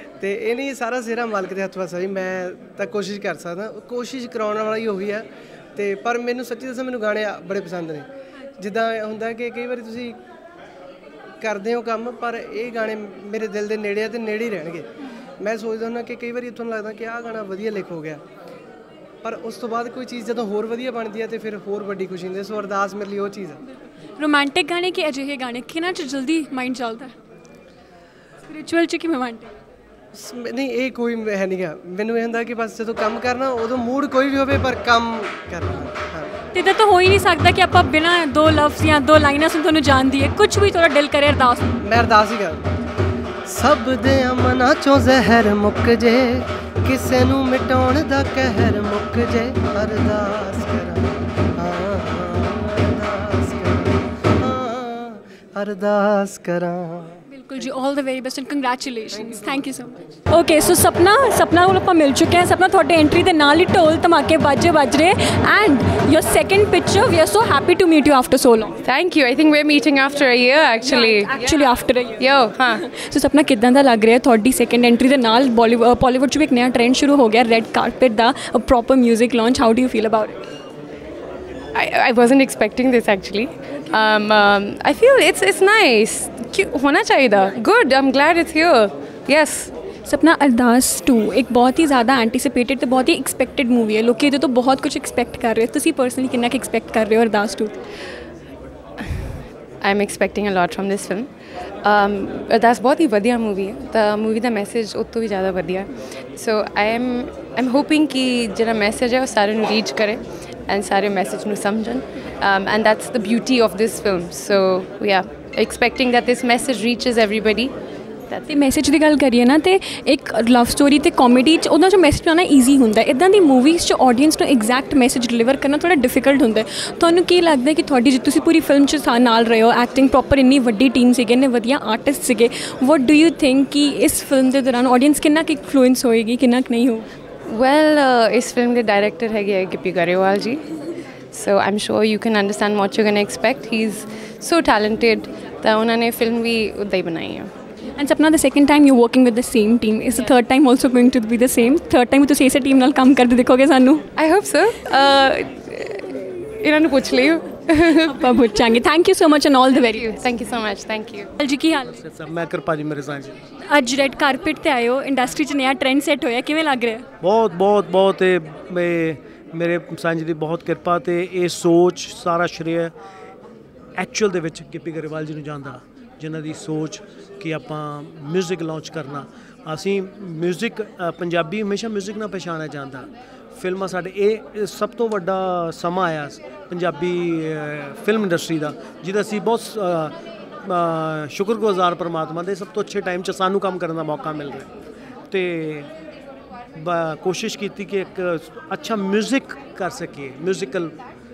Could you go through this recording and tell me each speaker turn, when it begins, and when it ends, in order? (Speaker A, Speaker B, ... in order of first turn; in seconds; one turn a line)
Speaker A: 0.2-8.1
Speaker A: 8.6-10.2
Speaker A: 11.4-14.9
Speaker A: 15.4-18.2
Speaker A: 19.2-23.6
Speaker B: 24.2-27.1
Speaker B: 28.5-29.5
Speaker A: 30.1-36.3
Speaker B: 36.5-41.8
Speaker A: 41.8-42.7
Speaker A: 43.5-57.7
Speaker B: 57.3-68.8
Speaker A: 59.1-59.9
Speaker C: 68.8-71.3
Speaker B: 70.8-80.5
Speaker C: 72.2-72.8
Speaker C: 81.8-89.7
Speaker B: 90.1-97.7
Speaker C: 99.8-101.3
Speaker C: 101.8-117.7
Speaker B: 118.5-137.1
Speaker C: 137.5-140.6
Speaker C: 141.3-147.5
Speaker B: 148.0-154.1
Speaker C: 154.2-158.1
Speaker B: 157.9-160.2
Speaker C: 159.9-161.3
Speaker B: 161.4-161.9
Speaker D: 161.9-163.4
Speaker B: 163.6-167.1
Speaker D: 167.2-172.9
Speaker D: 174.0-194.7
Speaker D: 195.3-195.9
Speaker D: 196.7-201.0